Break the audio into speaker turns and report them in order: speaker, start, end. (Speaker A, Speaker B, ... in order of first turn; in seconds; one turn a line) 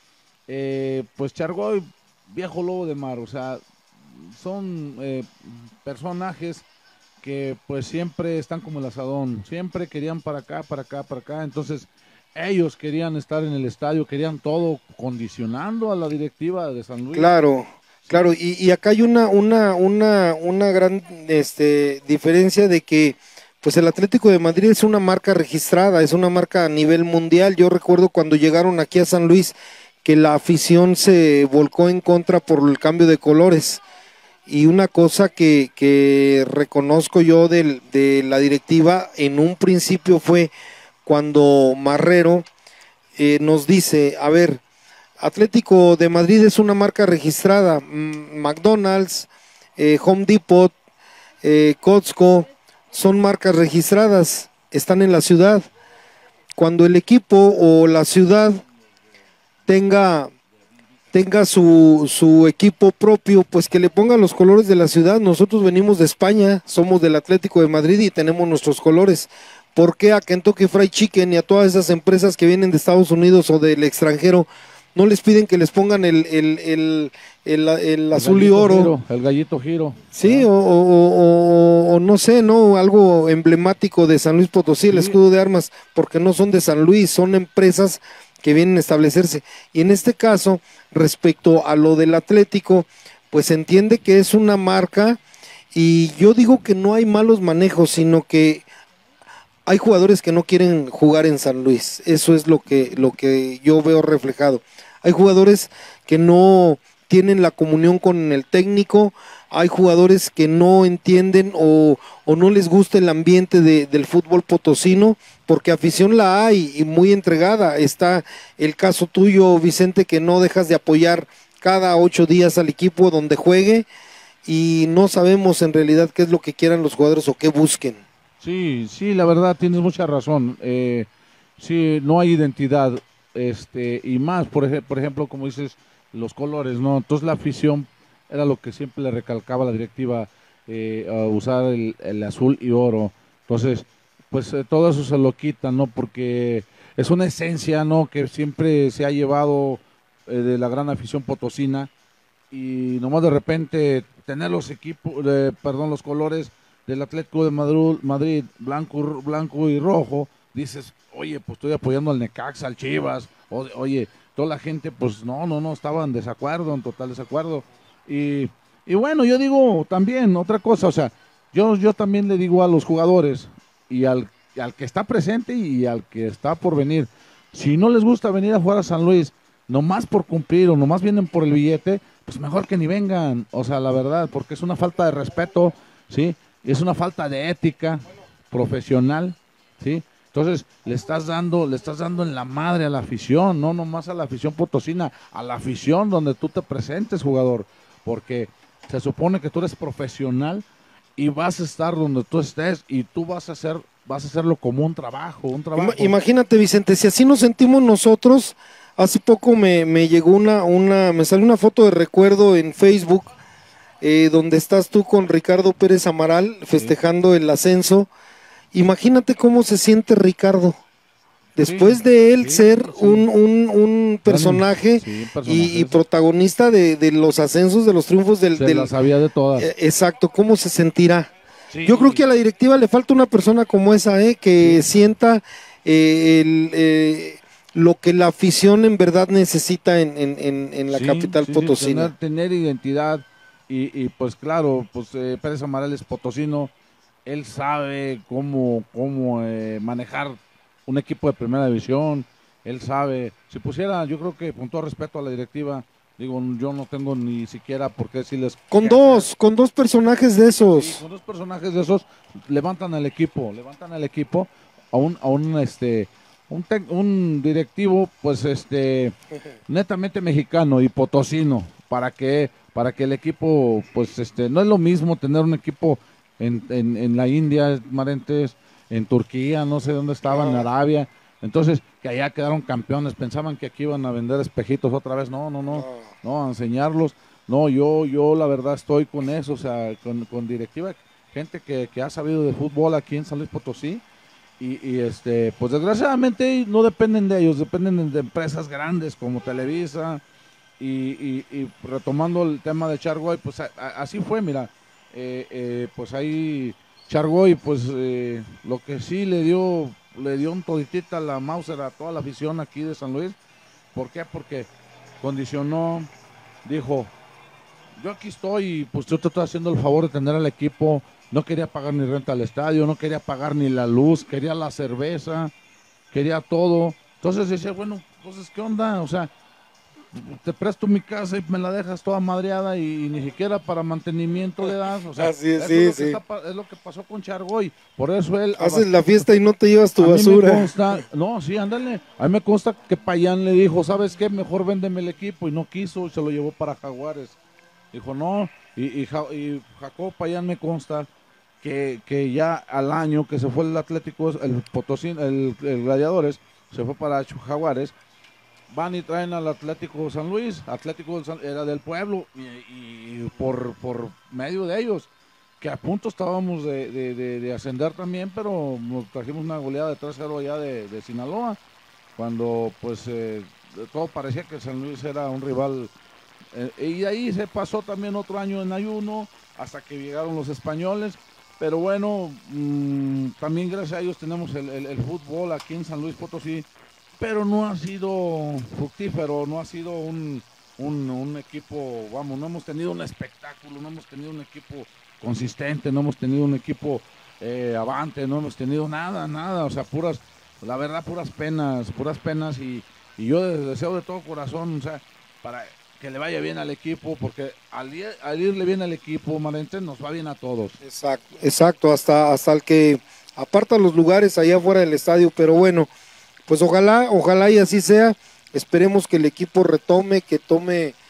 Speaker A: 0.5-6.6
Speaker A: 7.2-17.3
Speaker B: 17.1-33.8
Speaker B: 34.5-40.5
Speaker B: 41.0-42.5
Speaker B: 43.2-44.6
Speaker B: 45.2-50.7
Speaker B: 51.4-55.6
Speaker B: 56.6-58.6
Speaker B: 59.7-60.3
Speaker B: 61.1-78.9
Speaker A: 78.1-80.5
Speaker B: 80.1-95.2
Speaker A: 84.9-85.2
Speaker B: 95.7-98.6
Speaker B: 99.7-123.9
Speaker B: 124.5-128.0
Speaker A: 128.4-151.9
Speaker A: 152.5-206.1
Speaker B: 205.8-213.3
Speaker B: 214.0-218.1
Speaker B: 218.7-220.8
Speaker B: 221.6-228.9
Speaker A: 221.6-223.2
Speaker A: 224.3-226.0
Speaker A: 228.5-229.7
Speaker B: 229.6-231.3
Speaker A: 231.7-232.2
Speaker B: 231.8-242.1
Speaker A: 234.6-234.9
Speaker A: 240.9-246.7
Speaker A: 247.2-259.3
Speaker B: 258.7-261.0
Speaker A: 260.7-269.1
Speaker A: 269.7-294.0
Speaker B: 280.2-280.7
Speaker B: 285.7-286.1
Speaker A: 294.6-300.2
Speaker A: 300.8-313.4
Speaker A: 313.9-316.1
Speaker A: 316.6-317.1
Speaker A: 318.0-325.5
Speaker A: 326.1-329.3
Speaker A: 330.1-339.1
Speaker B: 334.6-336.2
Speaker B: 338.6-340.9
Speaker A: 340.0-347.4
Speaker A: 347.9-351.1
Speaker A: 351.6-357.9
Speaker A: 358.7-371.6
Speaker A: 372.1-375.9
Speaker A: 376.5-410.8
Speaker B: 410.8-415.9
Speaker B: 416.5-421.0